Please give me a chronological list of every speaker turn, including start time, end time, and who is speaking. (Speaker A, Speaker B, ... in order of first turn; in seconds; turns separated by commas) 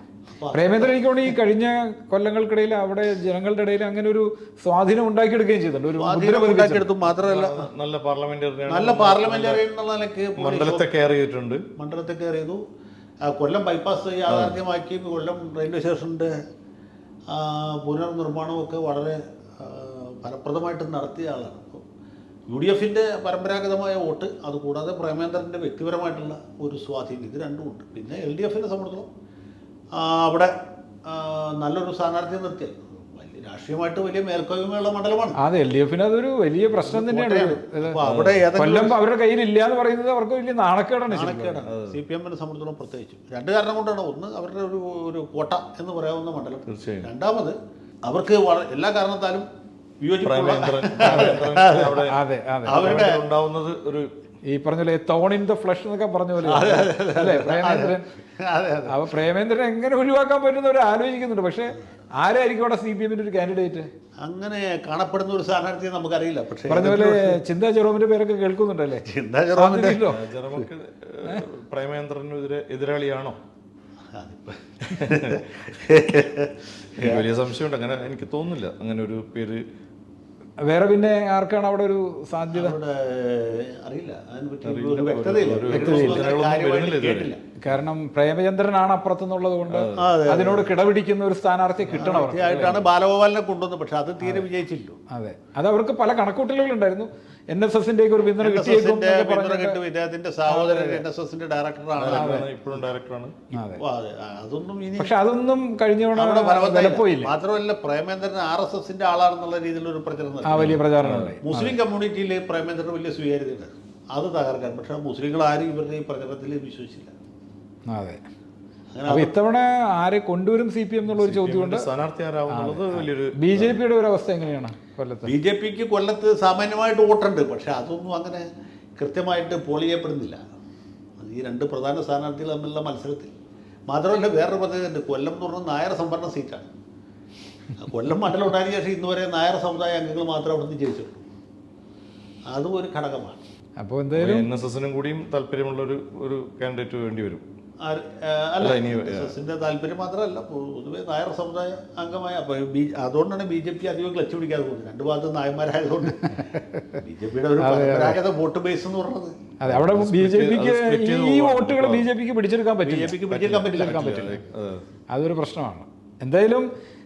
Speaker A: 0.3-1.3, Speaker B: 0.5-6.9, Speaker A: 6.0-7.7, Speaker C: 7.0-9.6, Speaker A: 8.7-10.9, Speaker C: 10.4-11.6, Speaker A: 11.8-12.6, Speaker A: 13.2-16.4, Speaker C: 14.3-14.6, Speaker A: 17.3-21.8, Speaker A: 22.5-29.1, Speaker A: 29.9-30.5, Speaker A: 31.1-35.4, Speaker B: 35.4-38.0, Speaker A: 36.8-39.0, Speaker C: 38.0-38.4, Speaker B: 38.5-41.6, Speaker A: 41.1-49.5, Speaker C: 41.7-42.0, Speaker C: 46.7-47.1, Speaker A: 50.0-52.1, Speaker C: 50.2-54.1, Speaker B: 51.0-52.9, Speaker A: 52.6-53.2, Speaker B: 54.5-58.1, Speaker A: 56.4-59.0, Speaker B: 58.9-63.9, Speaker A: 64.2-67.4, Speaker B: 66.7-70.7, Speaker A: 69.0-70.1, Speaker C: 70.0-73.4, Speaker A: 74.1-77.3, Speaker C: 75.0-75.4, Speaker C: 77.0-79.6, Speaker B: 80.6-82.8, Speaker A: 82.5-87.4, Speaker C: 84.6-87.3, Speaker B: 85.7-86.3, Speaker B: 87.6-92.8, Speaker C: 89.7-90.1, Speaker A: 90.0-90.8, Speaker A: 91.9-95.0, Speaker B: 94.2-94.5, Speaker B: 95.1-99.8, Speaker A: 98.4-102.5, Speaker B: 100.5-101.0, Speaker C: 102.0-103.4, Speaker B: 102.1-102.5, Speaker B: 103.5-103.8, Speaker A: 103.8-105.1, Speaker B: 105.0-107.3, Speaker A: 106.2-110.9, Speaker B: 110.5-111.8, Speaker C: 110.6-111.3, Speaker A: 111.4-117.1, Speaker B: 117.9-118.2, Speaker A: 118.9-119.3, Speaker B: 119.1-121.9, Speaker C: 121.1-123.8, Speaker B: 122.5-125.3, Speaker A: 125.2-130.4, Speaker A: 131.2-133.3, Speaker A: 133.9-136.7, Speaker A: 137.8-141.2, Speaker A: 142.5-143.4, Speaker B: 143.8-144.5, Speaker C: 144.1-147.4, Speaker A: 147.8-159.4, Speaker C: 148.6-149.3, Speaker B: 157.6-158.2, Speaker B: 159.6-164.4, Speaker C: 159.7-162.1, Speaker A: 162.8-164.2, Speaker C: 163.3-164.8, Speaker B: 165.1-166.7